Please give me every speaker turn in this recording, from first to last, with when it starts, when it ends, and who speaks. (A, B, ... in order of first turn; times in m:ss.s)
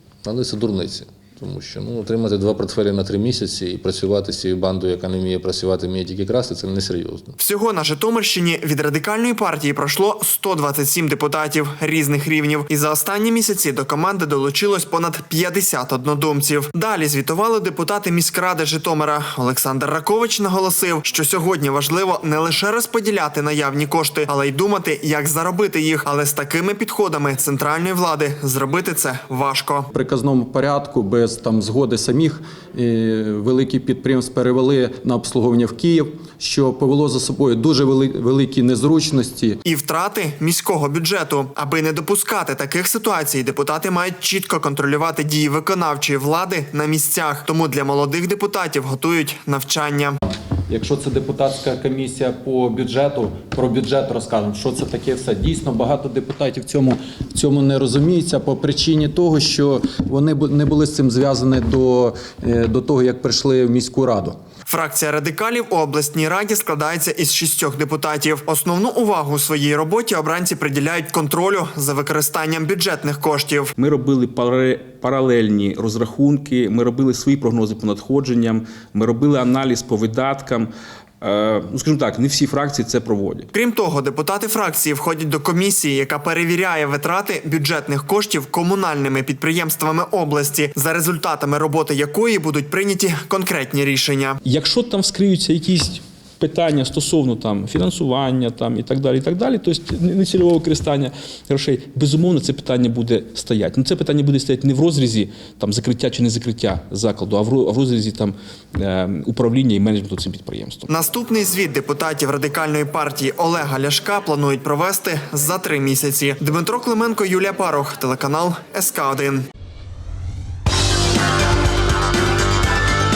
0:00.2-0:07.1 A
0:07.4-0:29.9 B
0:29.9-0:39.6 C
0:39.6-0:50.2 B
0:50.7-1:04.4 C
1:04.7-1:13.7 B
1:13.8-1:20.7 D
1:21.2-1:23.5 D
1:23.5-1:34.4 B
1:34.4-1:50.9 D
1:50.9-1:59.5 B